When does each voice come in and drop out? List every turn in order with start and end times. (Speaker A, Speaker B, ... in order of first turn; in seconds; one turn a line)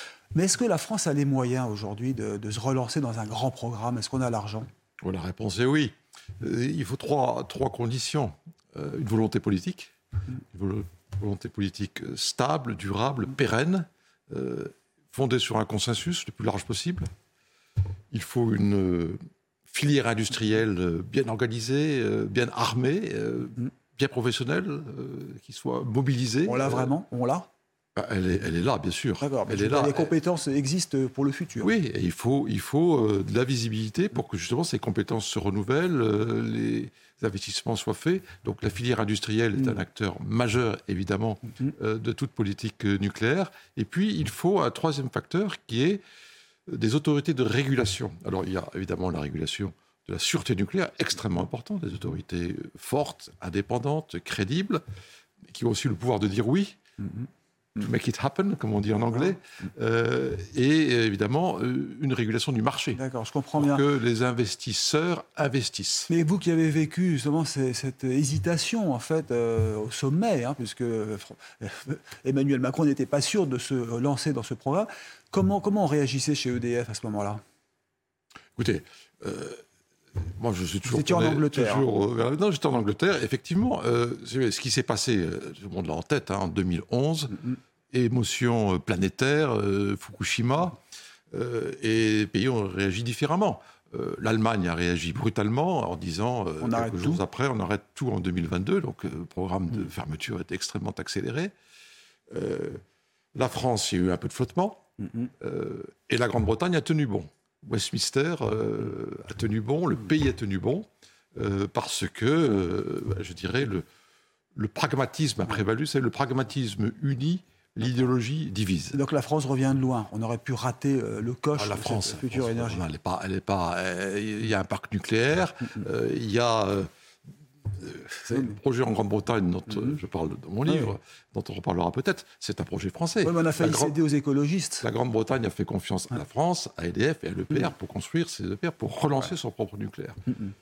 Speaker A: 0.3-4.7
Speaker B: 5.0-9.9
Speaker B: 10.5-17.1
Speaker B: 18.1-26.9
Speaker A: 26.4-27.5
Speaker B: 27.9-30.1
Speaker A: 29.2-31.7
Speaker B: 31.6-46.0
Speaker B: 46.7-54.8
Speaker B: 55.5-56.8
Speaker B: 57.8-63.0
Speaker A: 62.9-63.8
Speaker B: 63.5-66.1
Speaker A: 66.1-77.4
Speaker B: 78.5-79.6
Speaker B: 80.2-90.8
Speaker A: 80.8-81.8
Speaker B: 91.3-101.5
Speaker A: 96.6-97.2
Speaker B: 102.3-102.8
Speaker B: 103.3-104.8
Speaker A: 105.0-105.3
Speaker B: 105.4-113.8
Speaker B: 114.5-119.0
Speaker A: 118.9-122.8
Speaker B: 121.6-126.9
Speaker B: 127.7-133.9
Speaker A: 133.2-134.9
Speaker B: 134.8-140.2